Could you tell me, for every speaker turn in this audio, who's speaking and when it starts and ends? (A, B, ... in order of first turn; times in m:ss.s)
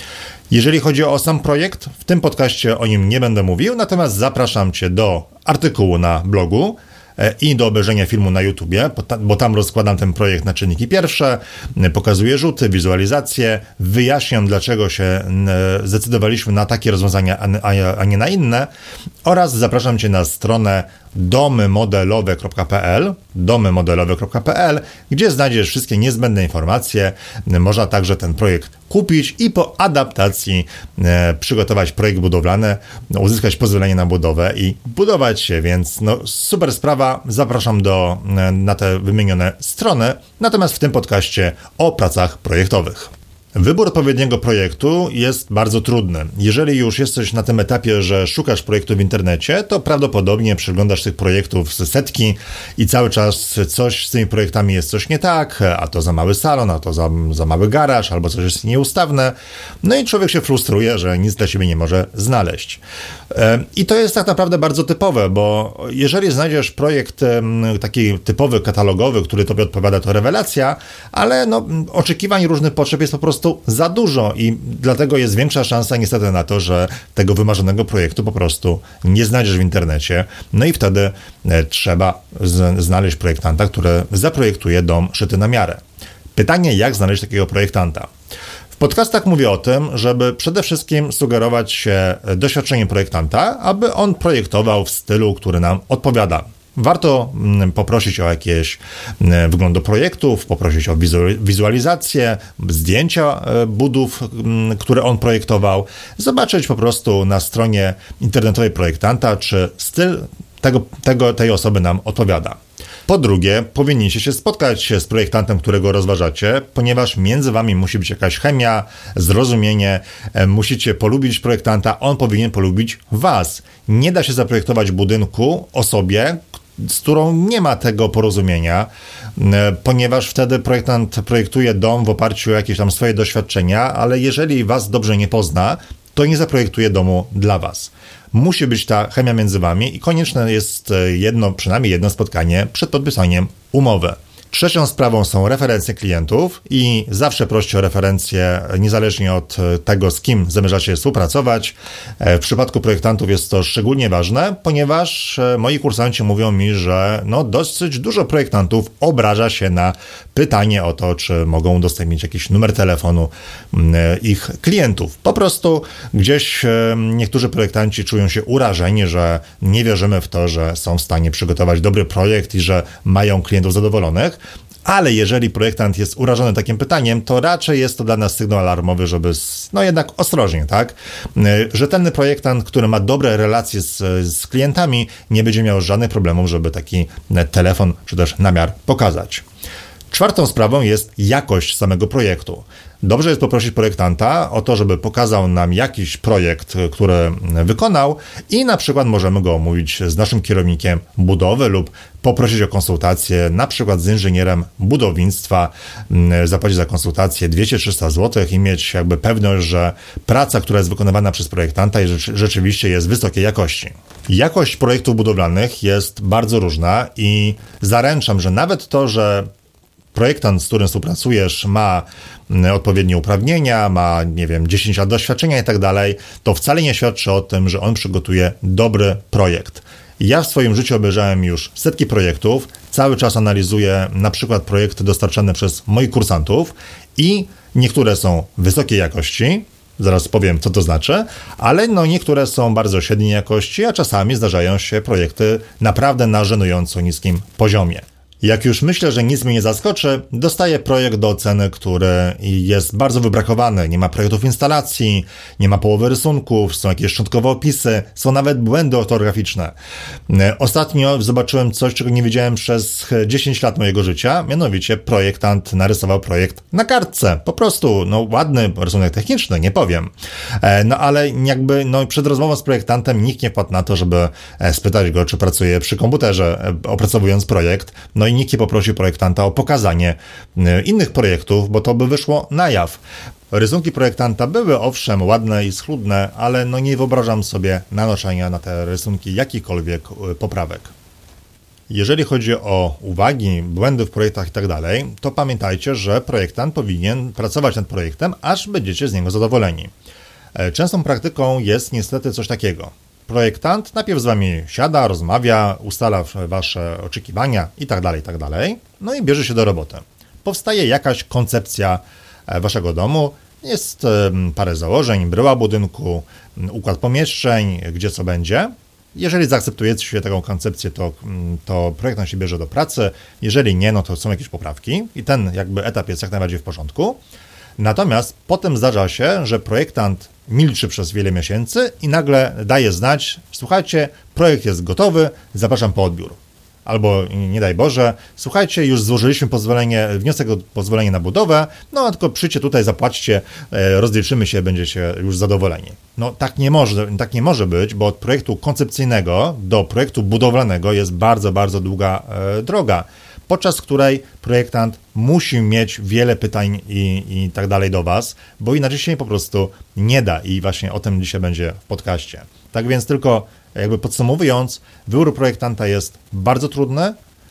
0:00.5-0:18.7 A
0:19.2-1:25.8 A
1:26.3-1:28.1 A
1:28.8-3:09.4 A
3:10.1-3:39.5 A
3:40.1-4:19.7 A
4:20.3-4:50.9 A
4:51.9-4:59.9 A
5:00.5-5:27.2 A
5:27.8-6:07.2 A